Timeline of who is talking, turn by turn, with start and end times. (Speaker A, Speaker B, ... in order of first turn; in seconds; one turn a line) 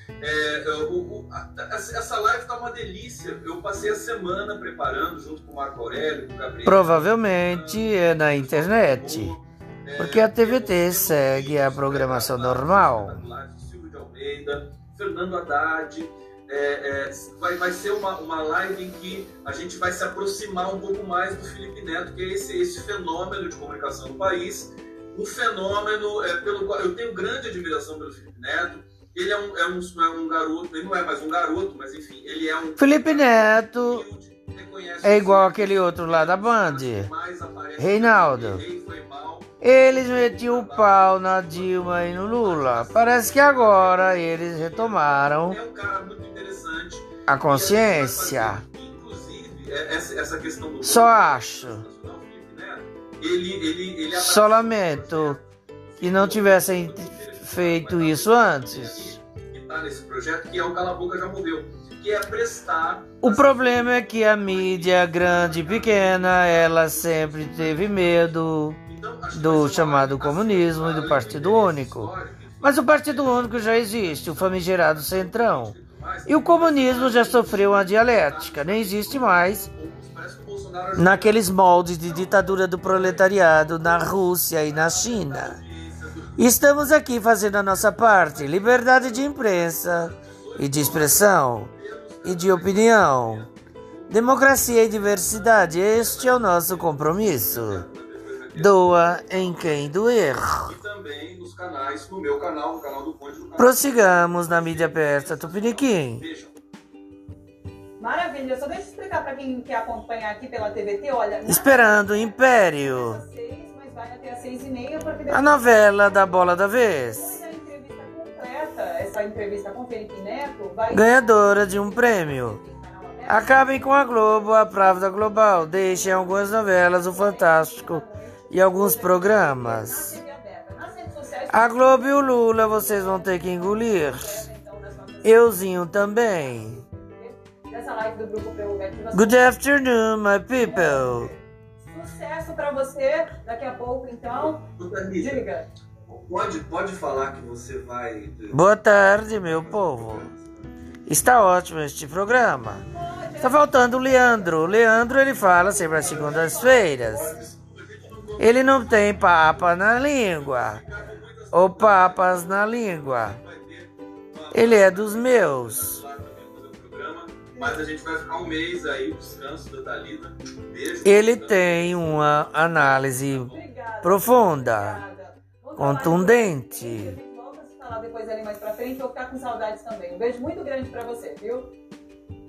Speaker A: 0.2-81.5
Speaker B: 6.6-9.3
Speaker B: 10.0-13.2
Speaker B: 32.8-34.0
Speaker B: 35.0-37.1
Speaker B: 37.8-38.6
Speaker B: 39.6-45.6
Speaker B: 47.3-48.6
Speaker B: 50.8-51.8
Speaker B: 54.1-55.4
Speaker B: 56.0-59.2
Speaker B: 63.2-68.8
Speaker B: 69.3-72.1
Speaker B: 72.6-75.7
Speaker B: 76.3-79.7
Speaker B: 81.0-85.5
Speaker A: 82.0-86.5
Speaker B: 86.4-91.7
Speaker A: 87.8-100.1
Speaker B: 92.2-93.5
Speaker B: 94.1-97.8
Speaker B: 98.5-100.7
Speaker A: 100.6-106.5
Speaker B: 103.6-106.2
Speaker C: 108.0-124.8
Speaker B: 111.5-113.2
Speaker B: 115.3-117.4
Speaker B: 120.9-122.6
Speaker B: 123.3-130.2
Speaker C: 125.7-126.4
Speaker C: 127.0-139.5
Speaker B: 131.5-134.4
Speaker B: 135.2-136.8
Speaker B: 139.1-141.3
Speaker C: 140.6-144.7
Speaker A: 144.5-145.4
Speaker C: 145.2-145.6
Speaker A: 146.1-150.7
Speaker B: 148.5-150.2
Speaker B: 151.1-152.8
Speaker C: 152.8-157.4
Speaker B: 153.4-157.3
Speaker A: 156.0-173.7
Speaker B: 158.4-160.8
Speaker B: 161.5-163.4
Speaker B: 164.5-166.0
Speaker C: 167.5-167.8
Speaker B: 171.0-173.5
Speaker C: 173.5-181.7
Speaker B: 174.0-175.0
Speaker B: 175.8-177.1